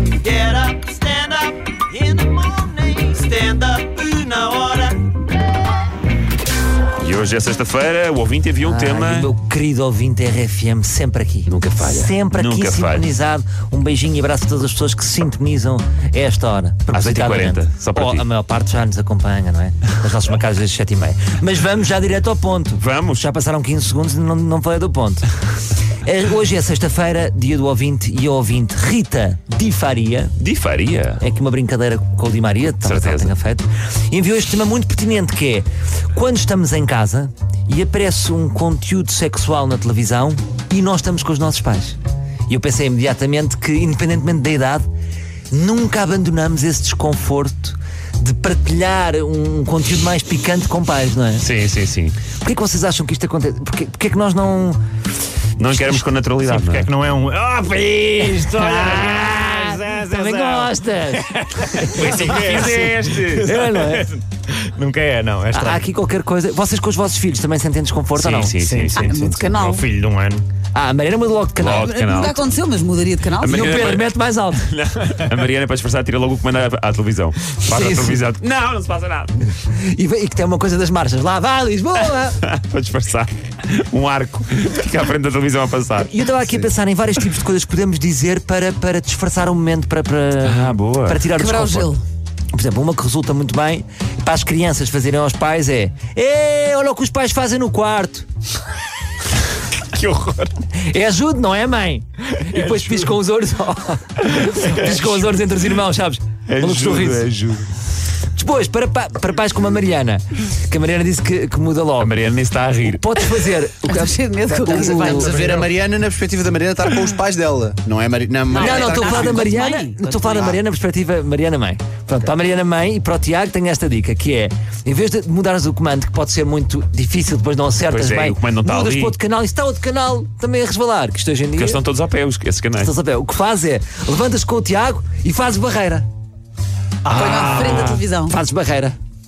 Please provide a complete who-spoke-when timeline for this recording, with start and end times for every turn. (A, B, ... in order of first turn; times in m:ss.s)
0:00.2-0:05.0 A
0:02.2-0:02.5 B
0:03.2-0:03.6 B
0:07.0-0:09.3 C
0:08.6-0:25.3 D
0:11.5-0:13.1 C
0:16.9-0:18.2 C
0:22.8-0:23.3 C
0:26.0-0:30.4 D
0:30.4-0:31.2 C
0:31.2-0:42.0 D
0:32.8-0:33.3 C
0:42.5-0:44.8 D
0:45.5-0:51.5 D
0:51.4-0:52.2 C
0:52.4-0:54.8 D
0:55.6-0:56.9 C
0:55.7-0:56.0 D
0:56.4-1:00.7 E
0:58.4-1:04.1 D
1:01.2-1:05.8 E
1:01.8-1:03.5 C
1:05.5-1:08.6 D
1:08.2-1:09.2 C
1:08.6-1:10.5 E
1:08.9-1:09.9 B
1:10.7-1:11.9 D
1:11.6-1:12.5 C
1:11.7-1:13.8 B
1:13.4-1:19.5 C
1:13.5-1:14.7 D
1:17.7-1:18.2 D
1:19.6-1:22.4 D
1:22.4-1:26.6 C
1:26.0-1:31.9 D
1:30.4-1:31.3 C
1:31.3-1:32.0 B
1:32.5-1:38.3 D
1:40.0-1:40.4 C
1:40.8-1:47.3 D
1:44.3-1:45.2 C
1:46.5-1:47.7 C
1:48.4-1:52.1 D
1:52.0-1:53.0 C
1:52.8-1:55.5 D
1:53.8-1:55.6 B
1:54.8-1:59.5 F
1:58.5-2:00.2 B
1:58.5-2:11.8 D
2:00.3-2:00.6 F
2:07.9-2:09.2 C
2:11.6-2:12.9 C
2:12.8-2:16.1 D
2:17.0-2:17.6 E
2:17.1-2:19.0 D
2:17.1-2:18.4 B
2:17.6-2:18.0 C